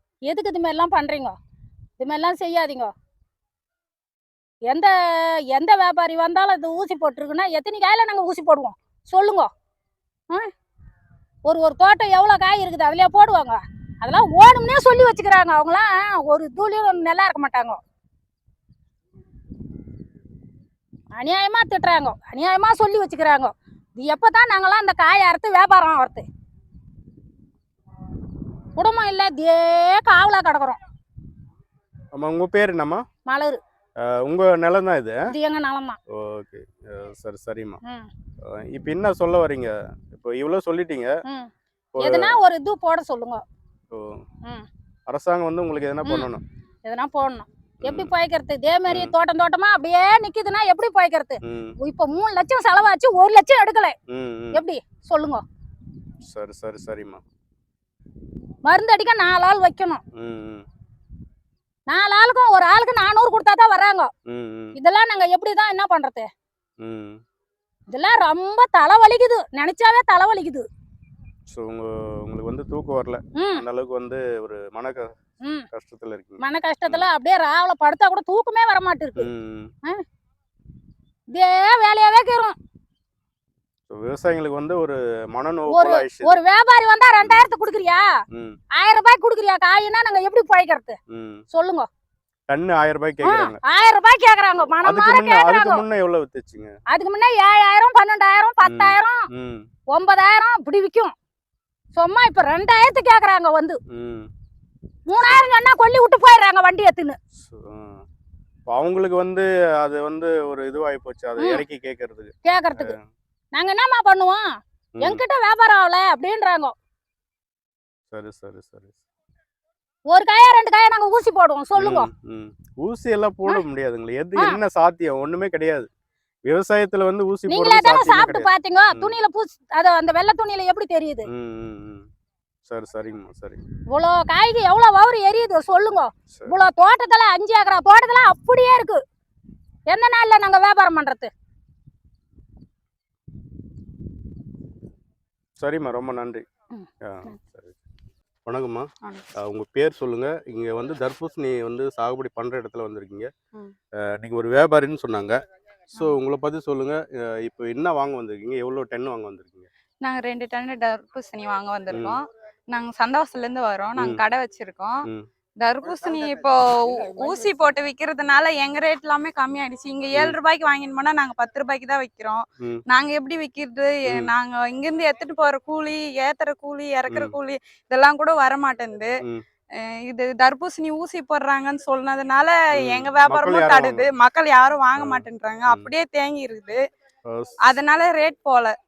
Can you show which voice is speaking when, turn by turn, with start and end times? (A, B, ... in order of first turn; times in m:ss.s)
0:00.3-0:01.4 A
0:02.0-0:02.9 A
0:04.7-0:09.5 A
0:11.4-0:17.8 A
0:21.1-0:26.2 A
0:28.8-0:30.8 A
0:32.1-0:33.0 B
0:33.3-0:33.6 A
0:34.0-0:35.2 B
0:35.3-0:36.0 A
0:36.1-0:37.8 B
0:38.4-0:41.1 B
0:42.0-0:42.4 B
0:42.0-0:43.4 A
0:43.9-0:44.2 B
0:45.1-0:46.4 B
0:46.8-0:54.0 A
0:47.8-0:48.1 B
0:51.4-0:51.7 B
0:54.1-0:54.6 B
0:54.5-0:55.4 A
0:56.2-0:57.2 B
0:58.6-1:00.0 A
1:00.2-1:00.6 B
1:01.9-1:04.1 A
1:04.3-1:04.7 B
1:04.8-1:06.3 A
1:06.8-1:07.2 B
1:07.9-1:10.6 A
1:11.5-1:15.1 B
1:13.4-1:13.6 A
1:15.7-1:17.1 B
1:16.4-1:19.3 A
1:19.2-1:19.7 B
1:21.3-1:22.6 A
1:23.9-1:26.4 B
1:25.7-1:28.0 A
1:28.3-1:28.6 B
1:28.7-1:31.0 A
1:31.1-1:31.4 B
1:31.5-1:31.9 A
1:32.5-1:33.6 B
1:33.2-1:35.8 A
1:34.8-1:36.7 B
1:36.9-1:39.2 A
1:38.6-1:39.7 B
1:39.9-1:41.1 A
1:42.0-1:43.8 A
1:43.9-1:44.3 B
1:45.1-1:47.2 A
1:45.2-1:45.5 B
1:47.4-1:48.0 B
1:48.7-1:53.0 B
1:51.4-1:51.6 A
1:52.4-1:52.9 A
1:53.5-1:56.7 A
1:58.1-1:59.0 B
2:00.1-2:02.1 A
2:01.8-2:05.9 B
2:06.5-2:09.2 B
2:07.5-2:11.3 A
2:11.3-2:12.0 B
2:12.7-2:13.6 B
2:13.9-2:19.0 A
2:19.9-2:21.3 A
2:25.6-2:26.4 B
2:26.7-2:27.4 A
2:27.0-2:27.7 B
2:28.5-2:33.3 B
2:34.1-2:35.4 B
2:35.9-2:39.7 B
2:40.0-2:45.1 C
2:41.9-2:42.2 B
2:45.6-2:59.2 C
2:57.1-2:57.4 B
3:00.1-3:06.8 C
3:02.9-3:04.1 B
3:05.0-3:05.9 B
3:07.3-3:07.6 B
3:07.6-3:08.8 C